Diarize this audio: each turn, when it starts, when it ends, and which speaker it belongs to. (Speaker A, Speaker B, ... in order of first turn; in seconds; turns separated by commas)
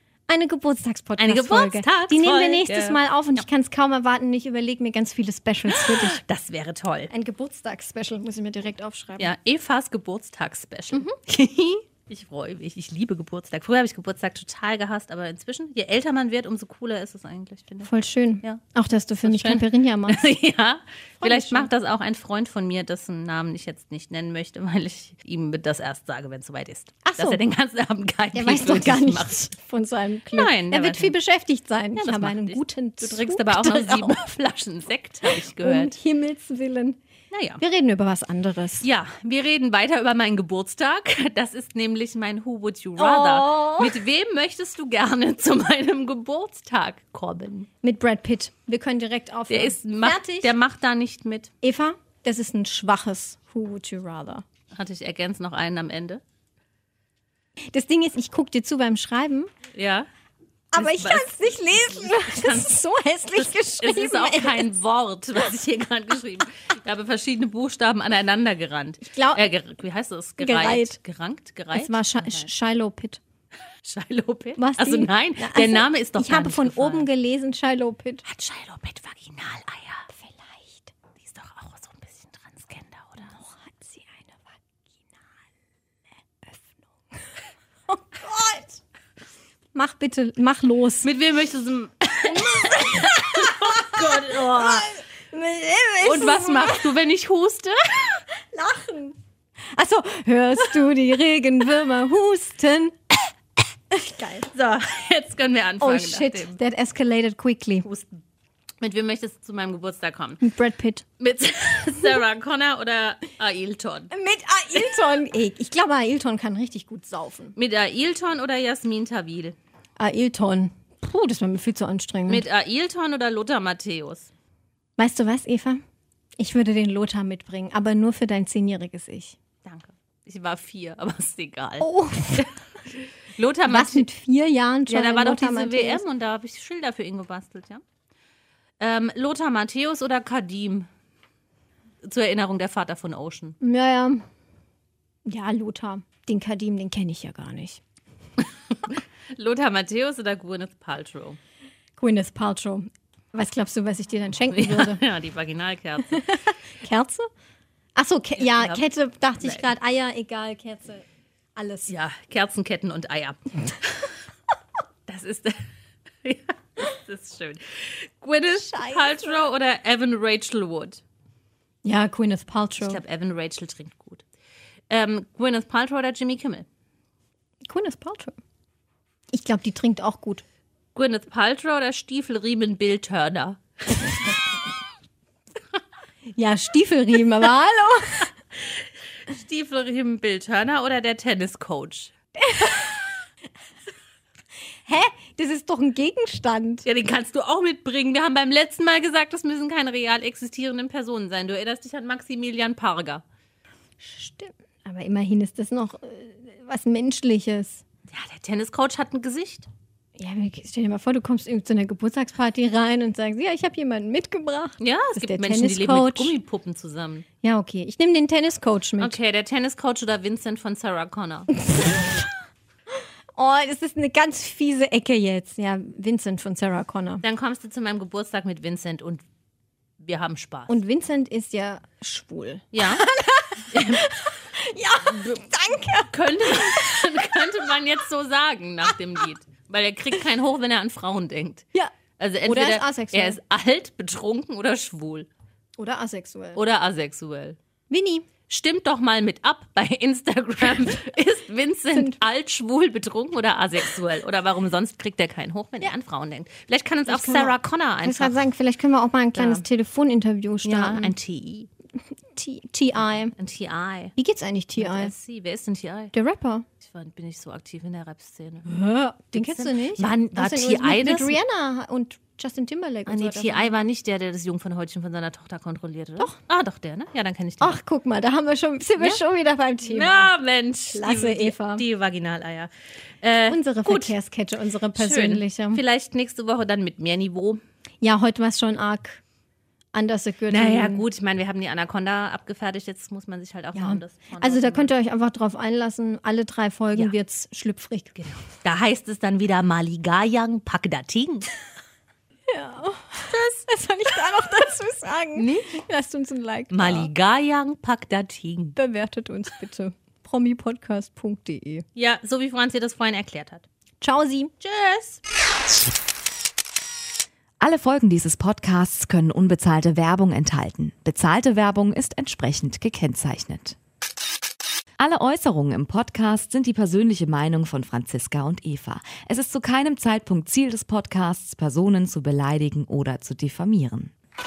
Speaker A: 0.3-6.2, Speaker B: 1.2-3.0, Speaker B: 5.7-7.1, Speaker A: 7.1-9.3, Speaker B: 9.2-17.9, Speaker A: 17.8-20.3, Speaker B: 19.2-29.4, Speaker A: 21.2-21.7, Speaker A: 27.0-27.4, Speaker A: 28.3-34.2, Speaker B: 30.3-31.1, Speaker B: 31.9-36.0, Speaker A: 35.3-37.0, Speaker B: 37.3-37.6, Speaker A: 37.6-38.8, Speaker B: 38.8-47.7, Speaker A: 43.0-44.0, Speaker A: 47.8-50.5, Speaker B: 49.5-51.5, Speaker A: 51.6-54.4, Speaker B: 54.7-56.2, Speaker A: 57.7-59.5, Speaker B: 59.7-60.1, Speaker A: 60.7-64.7, Speaker B: 60.7-62.7, Speaker B: 63.4-72.5, Speaker A: 69.0-69.5, Speaker A: 70.4-71.0, Speaker A: 71.7-73.2, Speaker B: 73.8-77.1, Speaker A: 74.6-78.2, Speaker B: 78.2-80.1, Speaker A: 80.1-80.9, Speaker B: 81.2-83.3, Speaker A: 83.3-84.6, Speaker A: 87.9-88.8, Speaker A: 89.7-91.1, Speaker B: 91.0-94.9, Speaker A: 92.3-96.9, Speaker B: 96.0-98.2, Speaker A: 98.4-99.2, Speaker A: 99.7-102.9, Speaker A: 103.9-104.5, Speaker B: 104.4-106.6, Speaker A: 105.8-107.9, Speaker B: 107.8-108.1, Speaker B: 108.8-110.4, Speaker A: 110.4-111.0, Speaker B: 111.2-114.1, Speaker A: 114.1-117.5, Speaker B: 117.5-119.5, Speaker A: 120.0-122.4, Speaker B: 122.3-124.3, Speaker A: 125.0-125.8, Speaker A: 126.4-129.4, Speaker B: 129.6-132.6, Speaker A: 131.8-132.5, Speaker B: 133.3-134.1, Speaker A: 133.7-136.0, Speaker B: 134.9-137.8, Speaker B: 138.8-140.9, Speaker B: 142.0-143.6, Speaker A: 143.6-144.2, Speaker A: 145.2-147.8, Speaker B: 148.7-151.4, Speaker A: 152.0-155.0, Speaker B: 154.5-156.3, Speaker A: 156.1-157.3, Speaker A: 157.9-161.9, Speaker B: 158.3-158.8, Speaker B: 159.4-159.7, Speaker B: 161.9-164.2, Speaker B: 165.1-165.7, Speaker B: 166.2-171.0, Speaker A: 168.5-169.4, Speaker A: 171.8-173.0, Speaker B: 172.8-174.2, Speaker B: 174.9-176.7, Speaker A: 177.6-178.4, Speaker A: 179.3-180.4, Speaker B: 180.9-184.0, Speaker A: 186.3-188.3, Speaker B: 188.7-192.1, Speaker A: 192.4-193.0, Speaker A: 194.8-196.8, Speaker B: 196.8-203.2, Speaker A: 204.0-207.8, Speaker B: 208.1-209.7, Speaker A: 210.2-216.3, Speaker B: 214.8-217.2, Speaker A: 217.4-219.2, Speaker B: 219.0-221.5, Speaker A: 221.7-222.2, Speaker A: 222.9-227.2, Speaker B: 227.2-229.2, Speaker B: 230.0-230.8, Speaker A: 230.7-237.0, Speaker B: 232.7-233.1, Speaker B: 233.7-234.1, Speaker B: 236.1-241.6, Speaker A: 241.7-243.4, Speaker B: 242.2-245.3, Speaker A: 245.8-246.6, Speaker B: 246.5-247.6, Speaker A: 247.9-248.3, Speaker B: 248.5-258.4, Speaker A: 251.9-252.2, Speaker A: 257.1-261.1, Speaker B: 259.3-259.6, Speaker B: 260.6-261.7, Speaker A: 262.3-263.3, Speaker B: 263.3-264.1, Speaker A: 264.2-265.1, Speaker B: 264.8-266.1, Speaker A: 266.1-266.6, Speaker B: 266.8-271.4, Speaker A: 268.6-273.7, Speaker B: 273.1-277.8, Speaker A: 277.6-280.3, Speaker B: 279.8-282.7, Speaker A: 280.9-281.8, Speaker B: 283.2-284.1, Speaker A: 283.5-285.8, Speaker B: 284.9-287.6, Speaker A: 288.0-289.2, Speaker A: 289.9-291.0, Speaker B: 290.5-294.9, Speaker A: 293.7-298.4, Speaker B: 298.6-301.5, Speaker A: 302.5-307.1, Speaker B: 303.2-303.6, Speaker B: 305.4-305.8, Speaker B: 306.7-308.8, Speaker A: 308.8-311.8, Speaker B: 311.9-313.6, Speaker A: 314.0-314.5, Speaker B: 314.6-315.2, Speaker C: 317.6-323.8, Speaker C: 325.0-334.1